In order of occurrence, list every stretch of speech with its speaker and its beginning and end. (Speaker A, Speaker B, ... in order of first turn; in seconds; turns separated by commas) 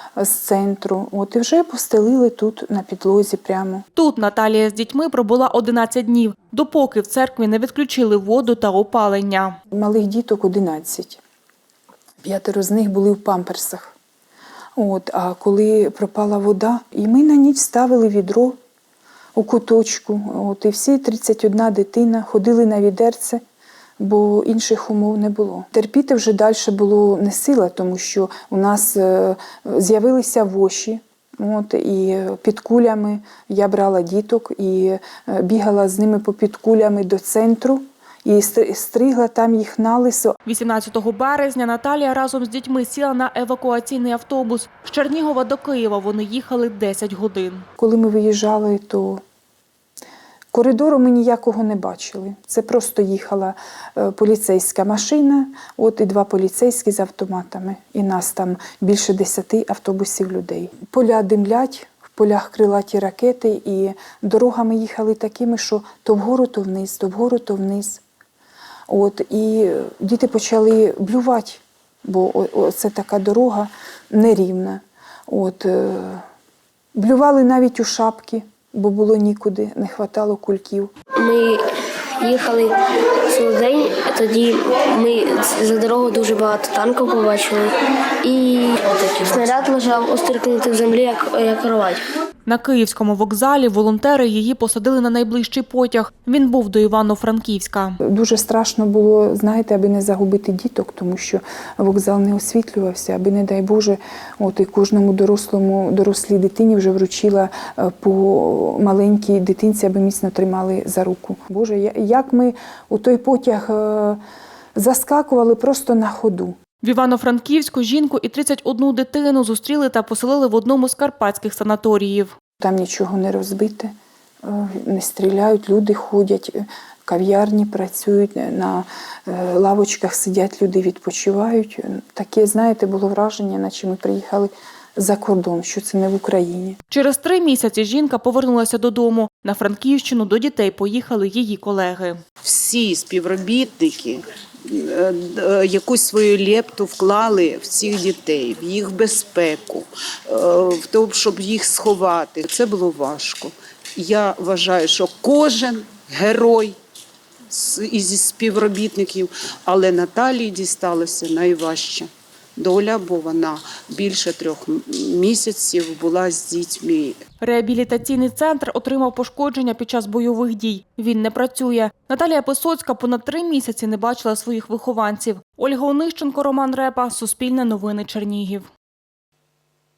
Speaker A: 0.2-3.9, Speaker B: 4.0-9.6, Speaker A: 9.7-11.2, Speaker A: 12.2-13.9, Speaker A: 14.8-18.6, Speaker A: 19.4-23.4, Speaker A: 24.0-40.4, Speaker B: 40.5-47.6, Speaker A: 47.8-49.2, Speaker A: 50.5-68.0, Speaker A: 68.9-76.2, Speaker A: 77.0-80.9, Speaker C: 81.2-81.5, Speaker C: 82.2-82.7, Speaker C: 83.3-87.6, Speaker C: 88.3-92.0, Speaker B: 92.5-98.0, Speaker A: 98.1-114.2, Speaker A: 114.8-116.6, Speaker B: 116.8-122.3, Speaker A: 122.6-123.9, Speaker A: 124.5-136.8, Speaker B: 136.9-142.2, Speaker D: 142.4-156.8, Speaker D: 157.5-167.2, Speaker B: 167.4-178.7